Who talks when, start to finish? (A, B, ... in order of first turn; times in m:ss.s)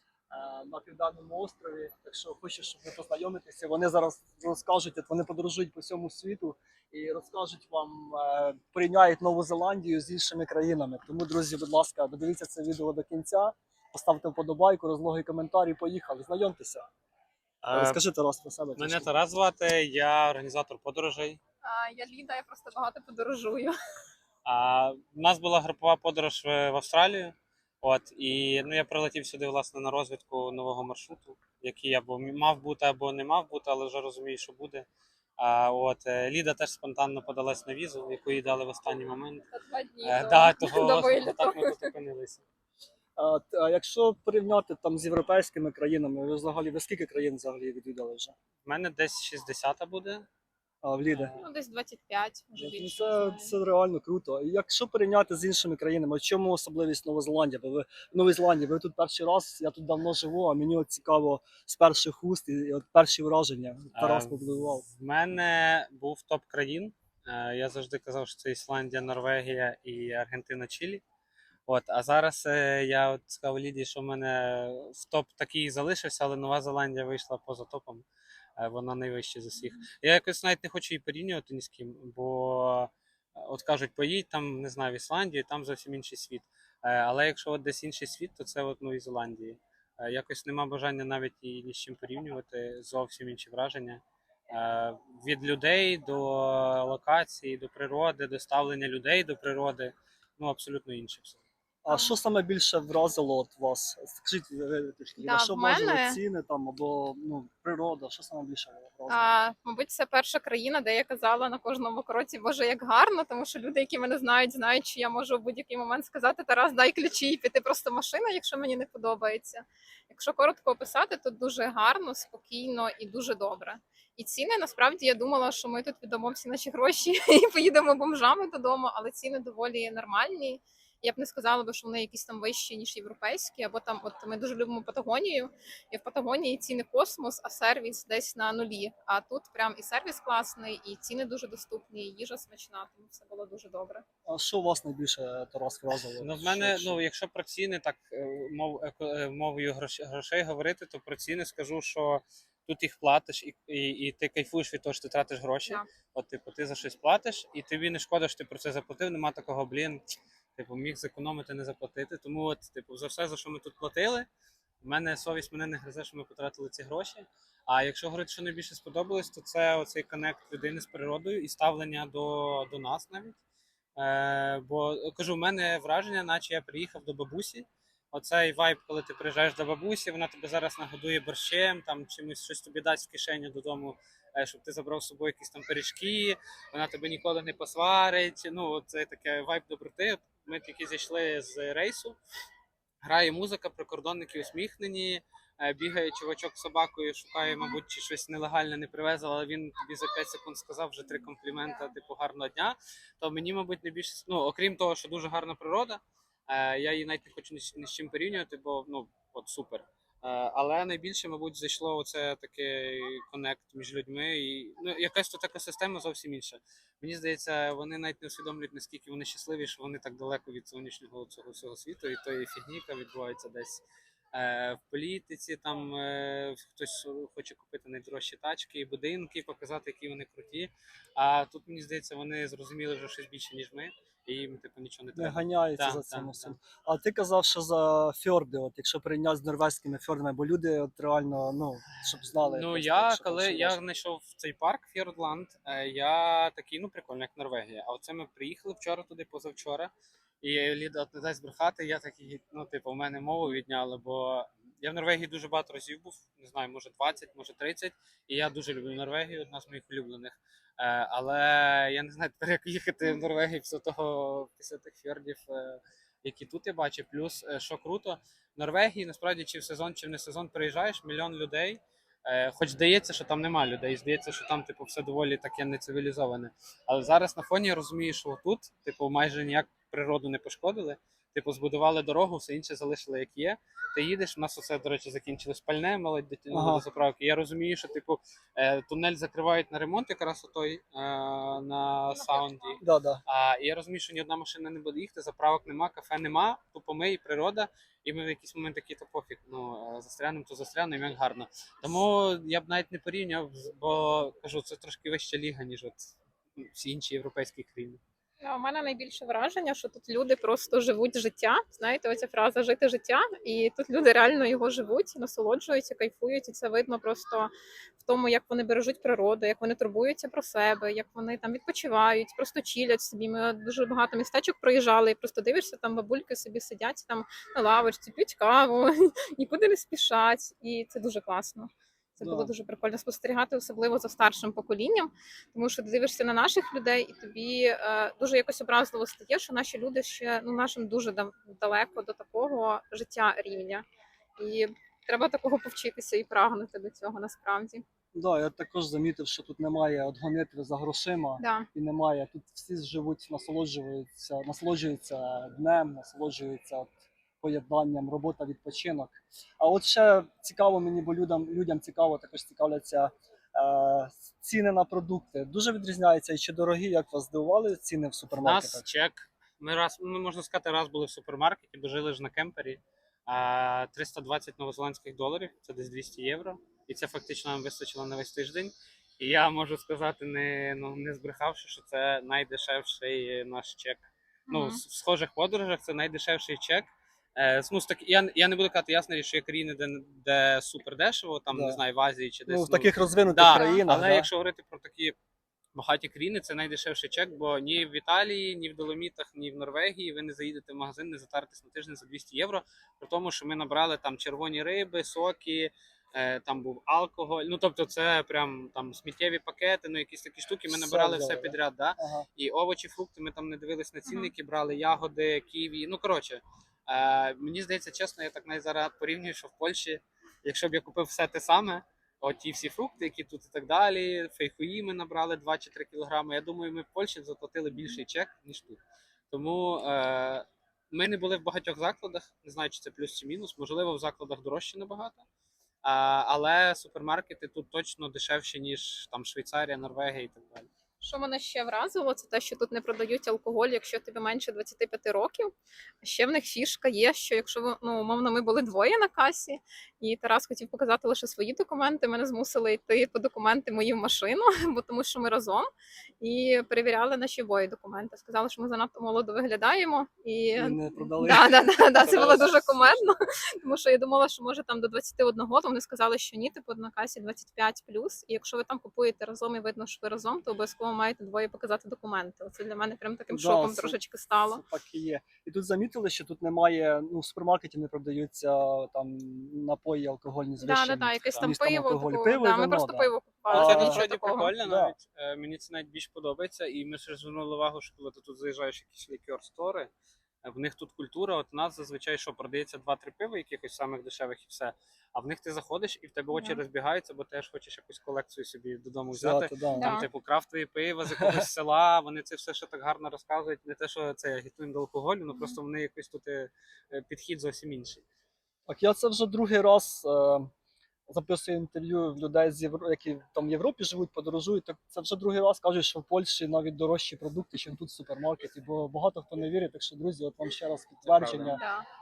0:00.3-0:16.8 A
0:17.6-0:18.0 B
0:17.7-0:19.1 A
0:18.8-0:21.4 B
0:21.6-0:23.8 C
0:24.4-0:34.9 B
0:35.4-0:39.5 B
0:39.5-0:41.9 C
0:40.0-0:42.4 B
0:43.2-0:48.3 A
0:48.6-0:50.3 B
0:50.8-0:51.4 A
0:51.1-0:51.4 B
0:51.4-0:53.6 C
0:52.6-1:04.8 A
1:04.0-1:11.0 B
1:11.7-1:18.1 B
1:18.6-1:41.4 B
1:41.8-1:49.2 A
1:41.9-1:42.2 C
1:45.2-1:46.2 C
1:49.1-2:24.0 C
2:24.3-2:27.0 A
2:26.2-2:40.0 B
2:40.6-2:44.3 B
2:44.8-2:53.4 B
2:54.0-3:12.2 B
3:13.0-3:56.6 B
3:55.2-4:03.8 A
4:02.4-5:08.0 B
4:46.5-4:46.8 A
4:52.1-4:52.8 C
4:52.8-4:53.2 A
5:08.4-5:43.8 C
5:32.2-5:32.5 A
5:44.4-5:47.8 C
5:48.1-6:08.8 A
5:51.4-5:51.7 C
6:08.4-6:35.2 B
6:24.5-6:24.8 C
6:31.5-6:31.8 A
6:32.5-6:34.3 A
6:33.5-6:33.8 C
6:35.7-7:08.8 B
6:50.7-6:52.3 A
6:54.1-6:54.3 C
7:09.3-7:15.2 B
7:15.8-7:20.7 B
7:21.0-7:35.7 C
7:36.2-7:54.6 C
7:40.6-7:42.5 A
7:42.0-7:43.1 B
7:53.3-8:05.0 A
8:00.6-8:04.5 C
8:01.2-8:01.6 B
8:03.5-8:09.9 B
8:10.4-8:28.0 B
8:16.3-8:16.6 C
8:19.1-8:20.0 A
8:19.7-8:20.1 C
8:21.2-8:21.4 A
8:28.7-8:30.5 A
8:31.1-8:41.6 A
8:41.0-8:41.6 B
8:41.5-8:41.9 C